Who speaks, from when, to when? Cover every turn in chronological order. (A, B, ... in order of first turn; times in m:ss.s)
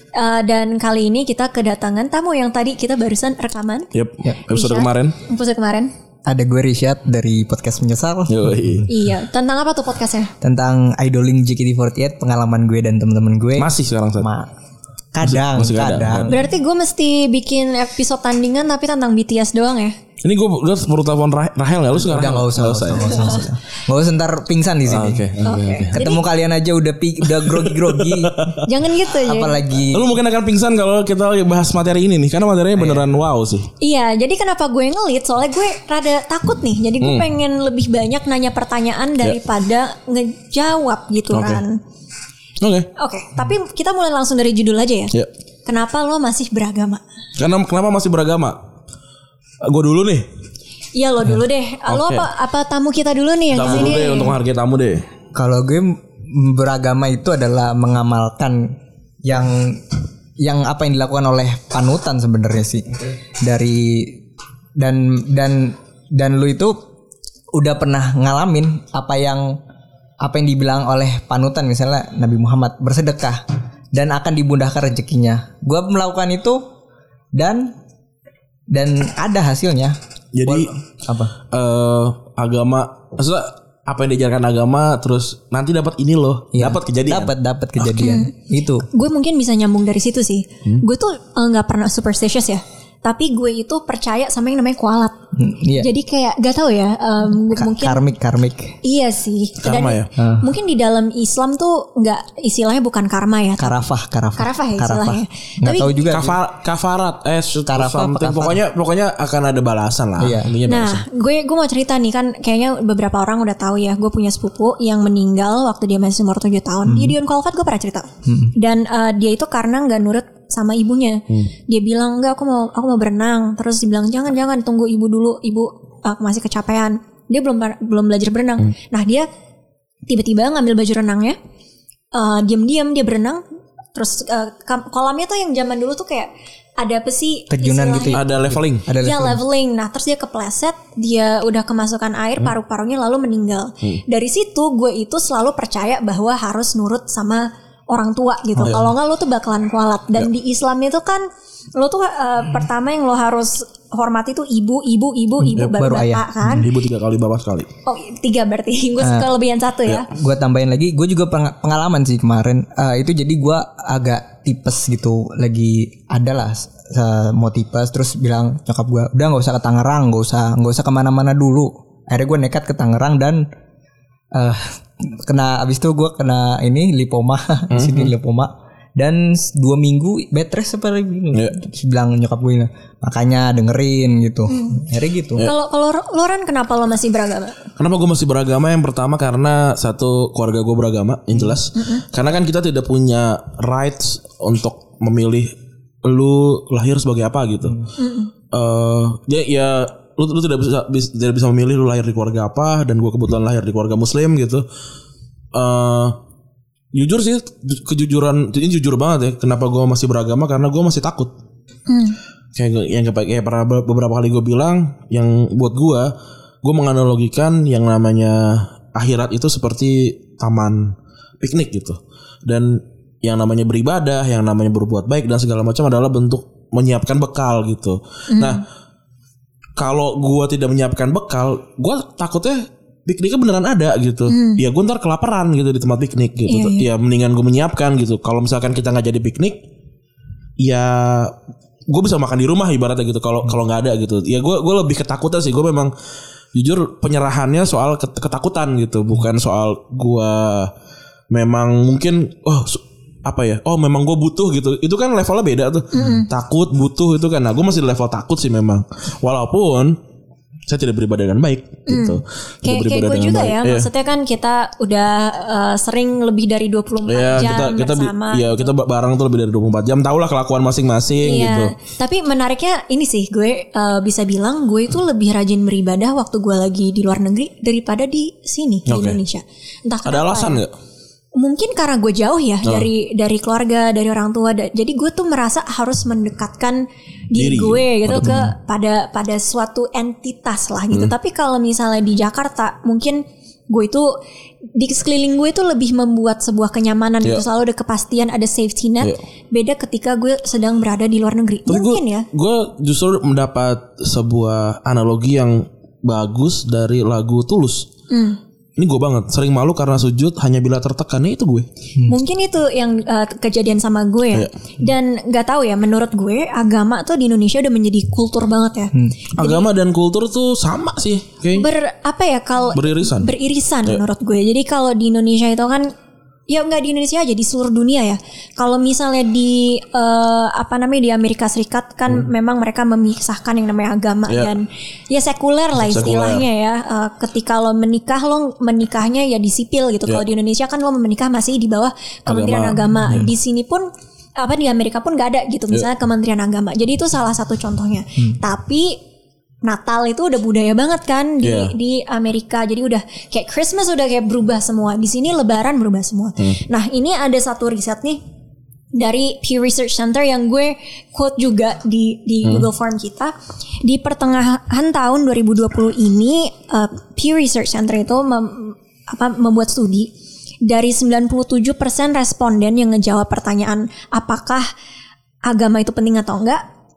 0:00.2-0:03.9 A
0:03.9-0:05.2 B
0:04.5-0:05.9 A
0:06.3-0:08.8 C
0:08.3-0:08.9 B
0:08.9-0:10.3 A
0:10.4-0:14.5 C
0:13.6-0:14.3 B
0:15.2-0:16.4 C
0:15.2-0:16.3 B
0:16.3-0:20.0 A
0:20.2-0:23.5 B
0:22.0-0:28.6 C
0:24.9-0:26.1 B
0:25.4-0:26.2 A
0:27.3-0:28.7 B
0:28.6-0:29.6 A
0:29.1-0:30.1 C
0:29.9-0:33.7 B
0:32.8-0:33.1 C
0:33.8-0:41.8 A
0:37.0-0:37.3 B
0:41.3-0:41.6 B
0:42.6-0:42.9 B
0:43.0-0:45.1 A
0:45.7-0:47.0 A
0:47.4-0:48.6 B
0:49.6-0:50.3 B
0:51.0-0:54.4 A
0:51.9-0:52.3 B
0:53.5-0:55.1 B
0:55.3-1:04.2 C
1:04.8-1:06.8 C
1:07.5-1:09.6 C
1:10.2-1:16.7 C
1:17.4-1:17.8 C
1:18.7-1:21.4 C
1:20.4-1:20.8 B
1:21.5-1:28.0 B
1:26.5-1:28.9 C
1:28.0-1:28.3 A
1:28.9-1:35.1 A
1:35.4-1:35.9 C
1:35.8-1:38.0 A
1:37.4-1:38.8 C
1:38.8-1:43.8 A
1:39.6-1:40.1 B
1:40.2-1:40.5 C
1:43.6-1:46.4 C
1:44.4-1:45.9 A
1:46.0-1:51.0 B
1:47.7-1:48.6 C
1:50.2-1:50.6 C
1:50.7-2:09.3 A
1:56.9-1:57.2 C
1:58.2-1:58.5 C
2:10.1-2:11.4 A
2:12.1-2:13.4 A
2:14.0-2:18.4 A
2:17.5-2:19.4 C
2:18.1-2:18.9 B
2:19.0-2:36.7 A
2:28.6-2:28.8 C
2:28.6-2:28.9 B
2:35.4-2:36.7 C
2:36.5-2:37.7 B
2:37.9-2:40.1 A
2:39.0-2:39.3 C
2:40.0-2:53.4 C
2:54.3-3:05.5 C
2:57.7-2:58.1 B
3:04.5-3:04.8 A
3:05.4-3:07.6 A
3:07.8-3:15.5 B
3:11.8-3:12.0 A
3:16.0-3:17.8 B
3:18.0-3:18.3 A
3:18.5-3:24.6 B
3:25.5-3:26.2 B
3:26.9-3:31.3 B
3:31.9-3:32.2 A
3:32.6-3:36.1 B
3:36.6-3:48.6 B
3:48.3-3:48.6 A
3:49.8-3:59.6 B
3:54.3-3:54.6 A
3:56.5-3:56.8 A
4:00.6-4:01.4 B
4:01.9-4:05.9 B
4:06.5-4:10.7 B
4:11.3-4:20.0 B
4:15.9-4:16.3 A
4:20.7-4:23.9 B
4:21.9-4:28.6 A
4:27.1-4:31.7 B
4:31.2-4:40.6 A
4:38.9-4:39.2 B
4:40.0-4:40.7 B
4:41.4-4:54.1 A
4:47.4-4:48.5 B
4:54.8-5:02.3 A
5:01.7-5:07.9 B
5:08.1-5:08.4 A
5:08.8-5:11.7 B
5:12.1-5:19.7 A
5:19.4-5:21.7 B
5:21.5-5:25.9 A
5:22.7-5:23.3 B
5:26.5-5:43.9 A
5:34.3-5:34.5 B
5:35.8-5:36.4 B
5:42.3-5:43.3 B
5:44.4-5:49.0 A
5:49.6-5:58.2 A
5:51.4-5:51.7 B
5:59.0-6:10.1 A
6:10.7-6:14.7 A
6:15.5-6:16.6 A